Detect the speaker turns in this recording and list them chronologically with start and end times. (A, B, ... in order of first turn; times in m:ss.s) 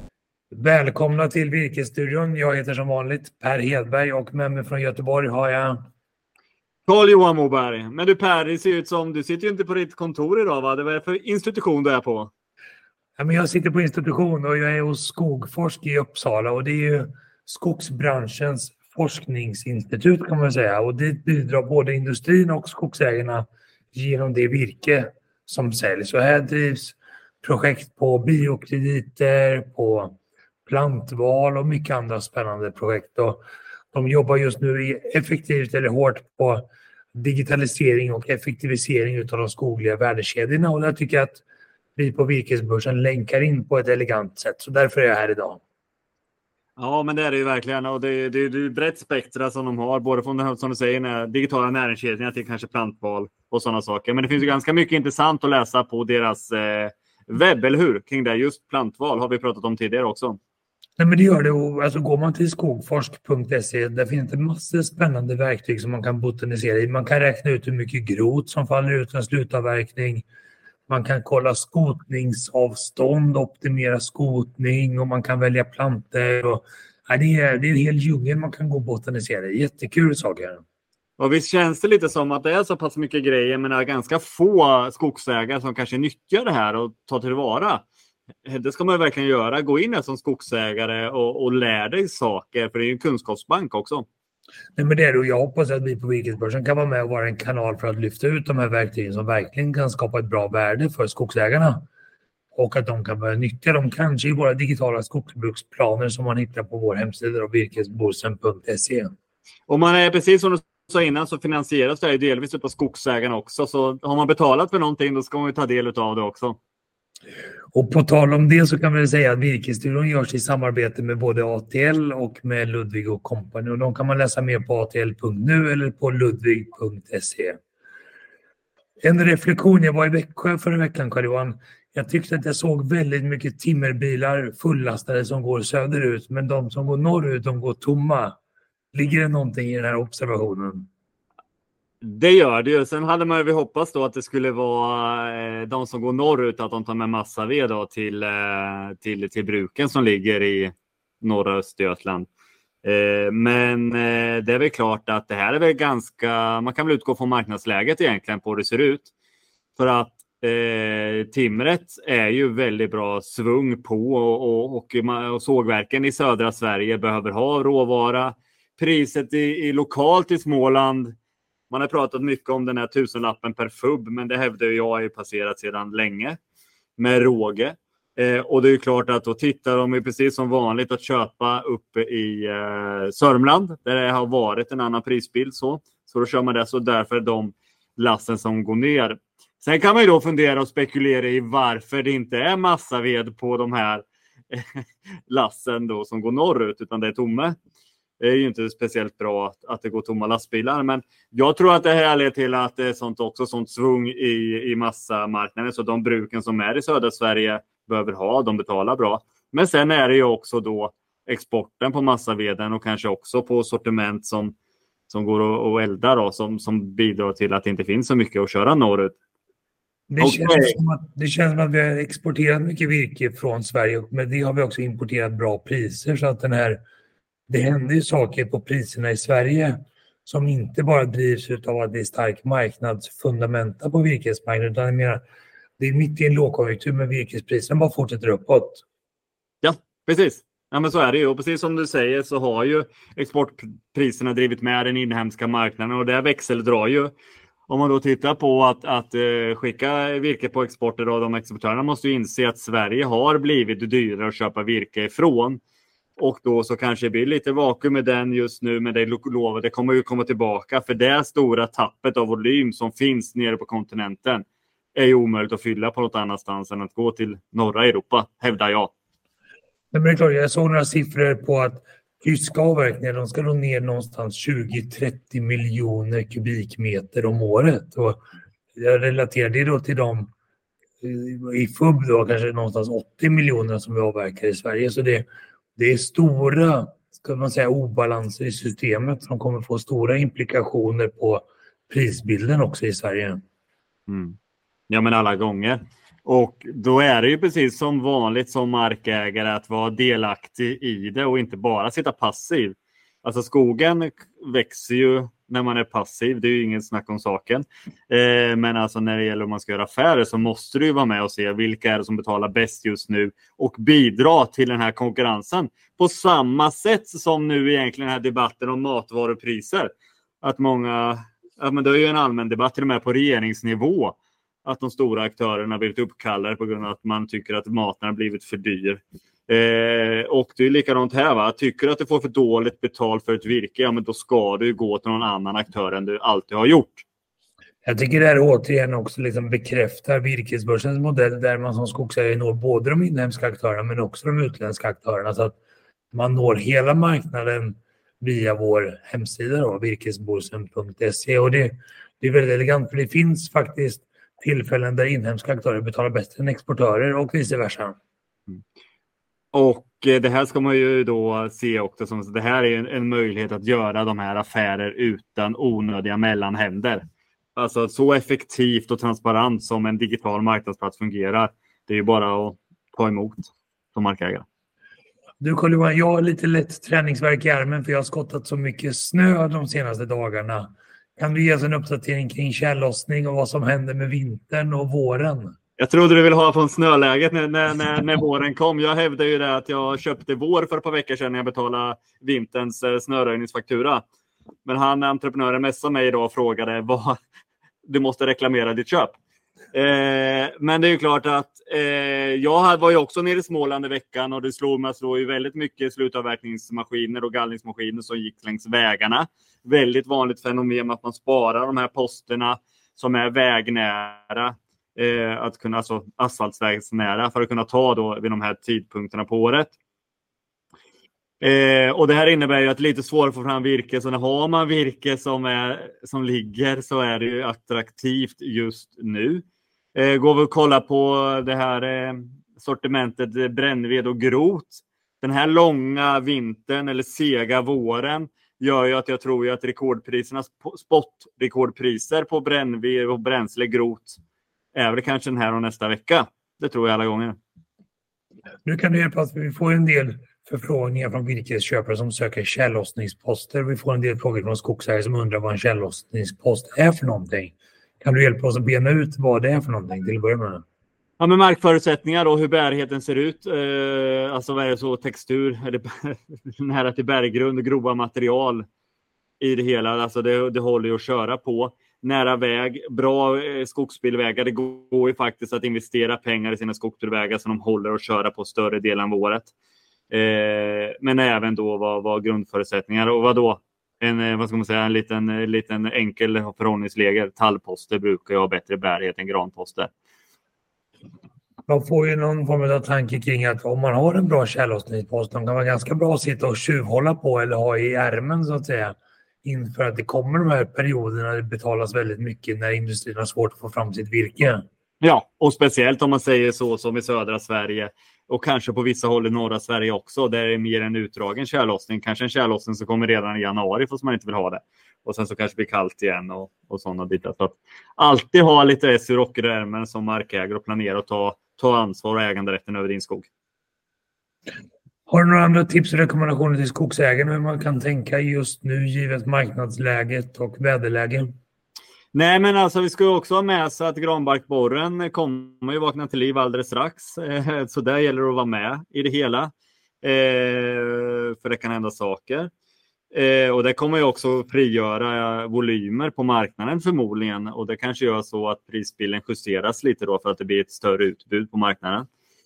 0:00.5-0:05.8 A
0:06.9-0:12.3 B
0:13.2-0:41.4 A
0:42.0-0:45.6 A
0:46.8-1:00.4 B
1:01.0-1:10.2 A
1:10.9-1:20.6 A
1:21.2-1:27.8 B
1:28.4-1:34.0 B
1:34.8-1:41.9 A
1:42.5-1:49.1 A
1:49.7-1:56.6 B
1:57.7-2:07.6 A
2:09.0-2:18.4 A
2:18.9-2:20.9 A
2:22.0-2:32.3 B
2:32.8-2:39.1 B
2:39.8-2:51.1 B
2:51.7-2:56.4 B
2:57.0-3:17.6 B
3:18.2-3:34.5 B
3:35.1-3:39.2 B
3:40.1-3:46.8 A
3:40.2-3:40.7 B
3:47.5-3:55.2 A
3:55.8-3:58.8 A
3:59.6-4:07.1 B
4:07.7-4:15.6 B
4:16.2-4:28.9 B
4:29.9-4:38.2 A
4:38.8-4:40.3 A
4:41.0-4:53.4 A
4:54.1-4:54.4 B
4:54.9-5:19.9 B
5:20.4-5:37.0 B
5:37.8-5:45.6 A
5:46.1-5:57.9 A
5:59.5-6:07.0 B
6:07.6-6:14.4 B
6:15.4-6:25.5 A
6:25.8-6:34.0 B
6:34.6-6:37.2 B
6:37.8-6:39.2 B
6:39.7-6:59.7 B
7:01.4-7:09.4 B
7:09.9-7:24.2 B
7:24.7-7:27.4 B
7:28.6-7:40.6 A
7:41.2-7:48.6 B
7:49.4-7:59.5 B
8:00.1-8:09.9 B
8:11.7-8:24.6 A
8:25.0-8:43.3 B
8:45.1-8:51.3 A
8:52.1-8:59.5 B
9:00.0-9:02.5 B
9:03.1-9:12.1 B